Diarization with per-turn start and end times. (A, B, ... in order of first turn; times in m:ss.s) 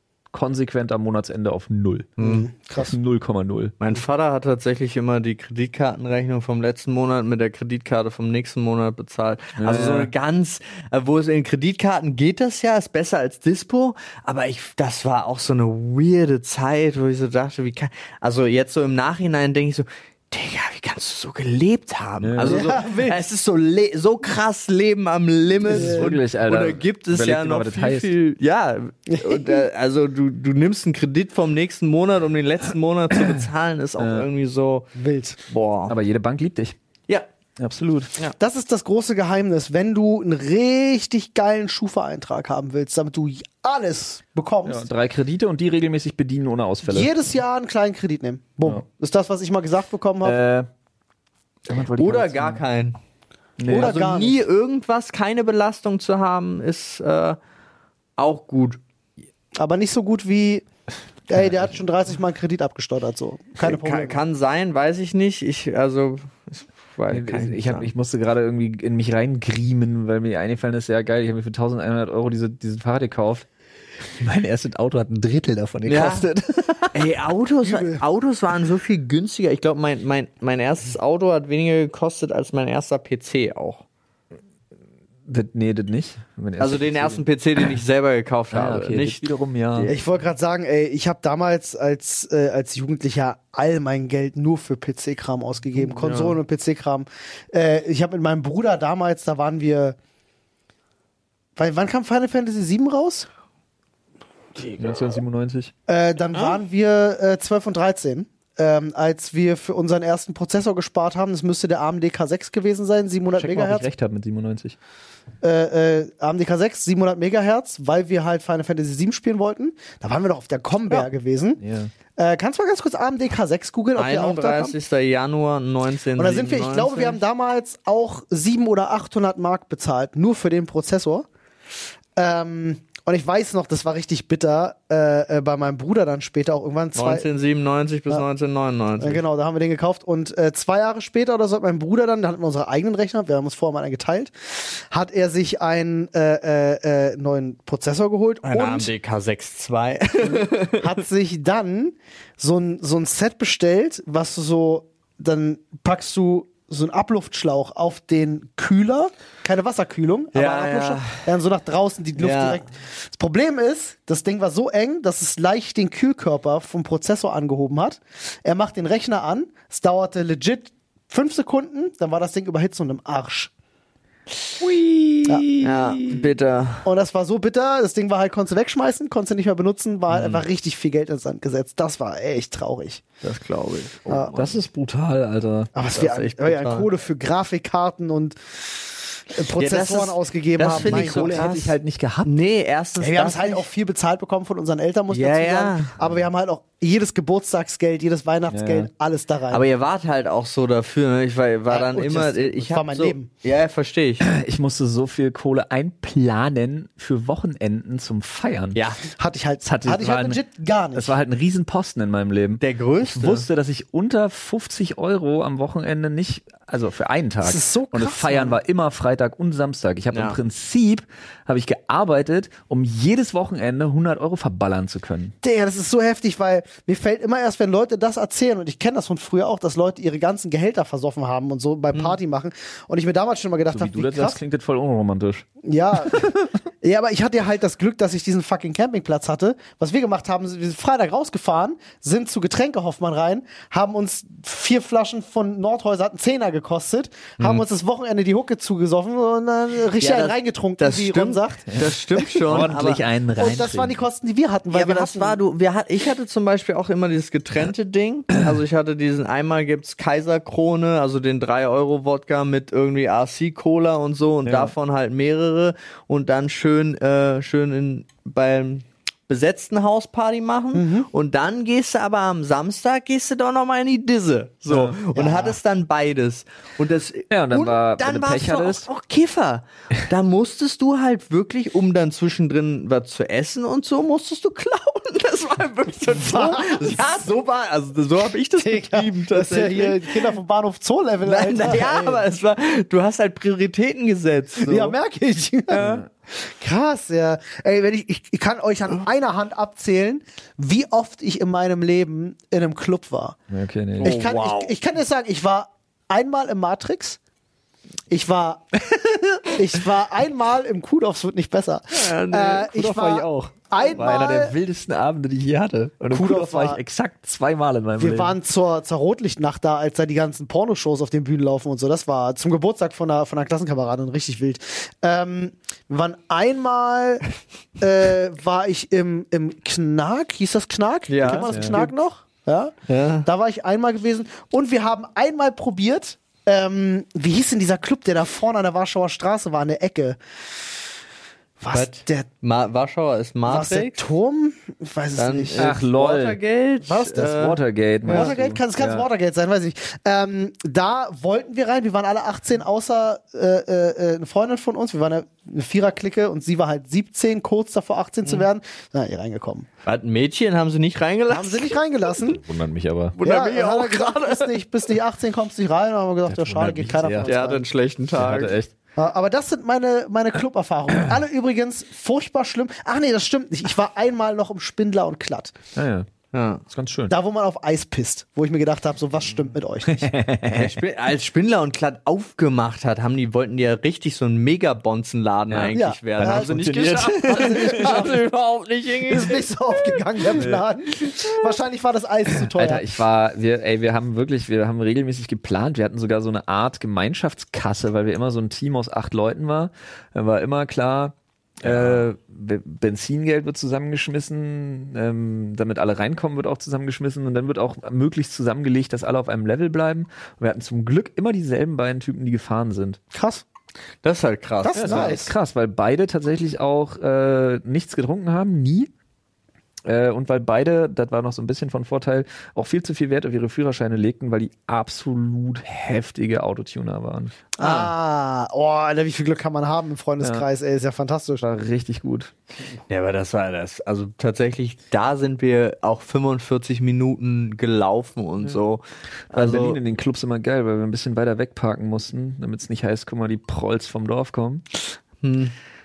0:00.3-0:02.2 A
0:02.2-0:02.5 B
0:02.2-0:02.9 C
0:02.8-0:03.7 A
0:03.8-0:34.9 B
0:09.6-0:10.1 A
0:22.2-0:22.7 A
0:22.4-0:23.2 C
0:25.6-0:26.1 C
0:25.6-0:28.1 A
0:29.1-0:29.6 C
0:34.0-0:34.3 A
0:35.0-0:35.4 C
0:35.5-0:36.0 B
0:35.9-0:36.8 A
0:37.6-0:38.1 A
0:38.4-0:44.8 C
0:44.6-0:47.1 A
0:46.8-0:50.4 C
0:50.2-0:50.7 A
0:51.7-0:52.6 A
0:52.0-0:53.0 B
0:53.6-0:54.0 A
0:53.7-0:54.4 C
0:53.7-0:57.4 B
0:58.2-0:58.8 B
0:59.6-1:00.6 C
1:01.3-1:04.2 C
1:03.6-1:07.9 B
1:07.1-1:13.4 A
1:14.1-1:17.0 A
1:15.8-1:16.3 B
1:16.9-1:23.8 B
1:17.6-1:18.0 C
1:25.3-1:27.2 A
1:26.6-1:29.2 B
1:28.5-1:29.9 A
1:29.7-1:30.0 B
1:29.9-1:40.0 C
1:35.8-1:36.4 B
1:41.6-1:43.3 C
1:44.6-1:45.0 B
1:44.8-1:45.7 A
1:45.9-1:53.9 C
1:53.4-1:54.8 A
1:55.4-2:01.6 C
2:01.6-2:01.9 A
2:02.2-2:04.7 C
2:04.0-2:07.2 B
2:06.2-2:11.3 C
2:12.2-2:17.2 C
2:17.0-2:19.2 B
2:19.0-2:28.9 C
2:28.4-2:30.9 B
2:30.3-2:53.5 C
2:40.3-2:41.2 B
2:42.2-2:42.6 B
2:54.6-2:56.2 A
2:55.6-2:56.9 B
2:56.8-3:03.0 C
3:03.2-3:04.6 B
3:04.1-3:04.3 C
3:04.4-3:05.7 A
3:05.7-3:11.5 C
3:05.9-3:06.9 B
3:09.6-3:13.7 B
3:10.7-3:12.3 A
3:13.0-3:19.6 C
3:15.1-3:15.9 B
3:18.5-3:18.9 A
3:19.5-3:24.2 B
3:21.7-3:23.3 C
3:24.2-3:28.8 A
3:28.7-3:29.0 B
3:29.1-3:31.1 C
3:29.6-3:30.4 A
3:30.9-3:45.3 A
3:32.6-3:33.5 B
3:37.4-3:38.6 C
3:40.1-3:40.4 B
3:45.4-3:54.4 C
3:53.7-3:55.5 A
3:55.6-4:12.6 C
3:56.0-3:56.4 A
4:10.0-4:13.0 B
4:12.4-4:14.0 A
4:13.4-4:15.4 C
4:14.7-4:50.4 B
4:24.4-4:24.7 A
4:30.7-4:31.1 C
4:34.7-4:35.0 A
4:35.1-4:35.6 C
4:37.3-4:38.9 A
4:46.1-4:47.3 C
4:48.6-4:52.2 C
4:51.2-4:54.9 B
4:54.7-5:03.4 C
4:55.8-4:56.1 A
5:03.5-5:04.2 A
5:04.0-5:04.8 B
5:04.0-5:07.2 C
5:08.1-5:14.5 C
5:11.9-5:12.7 B
5:12.7-5:18.4 A
5:13.8-5:14.2 B
5:16.1-5:16.8 C
5:18.0-5:27.2 C
5:27.8-5:40.2 C
5:31.1-5:31.9 B
5:31.5-5:31.8 A
5:32.9-5:33.3 B
5:41.6-5:42.3 C
5:41.7-5:44.0 B
5:43.5-5:45.7 C
5:45.2-5:48.3 B
5:45.6-5:46.4 A
5:46.8-5:47.4 C
5:47.2-5:49.0 A
5:48.0-5:59.7 C
5:59.8-6:01.8 B
6:01.3-6:02.4 C
6:02.2-6:03.2 A
6:03.2-6:04.6 B
6:03.2-6:07.6 C
6:06.3-6:07.3 A
6:07.2-6:08.5 B
6:08.2-6:08.7 A
6:09.0-6:15.5 C
6:15.7-6:16.1 A
6:16.3-6:16.6 B
6:16.7-6:17.1 A
6:17.1-6:20.1 C
6:19.9-6:20.8 A
6:20.5-6:30.4 B
6:25.5-6:28.1 A
6:25.7-6:28.2 C
6:29.1-6:32.9 C
6:30.4-6:30.6 A
6:32.5-6:53.0 A
6:53.1-6:53.4 C
6:54.0-6:55.1 B
6:54.6-6:55.3 C
6:54.8-6:58.9 A
6:59.8-7:07.5 A
7:07.6-7:11.4 C
7:07.6-7:07.9 B
7:11.4-7:12.3 A
7:12.9-7:19.8 B
7:19.3-7:24.6 A
7:25.2-7:25.5 B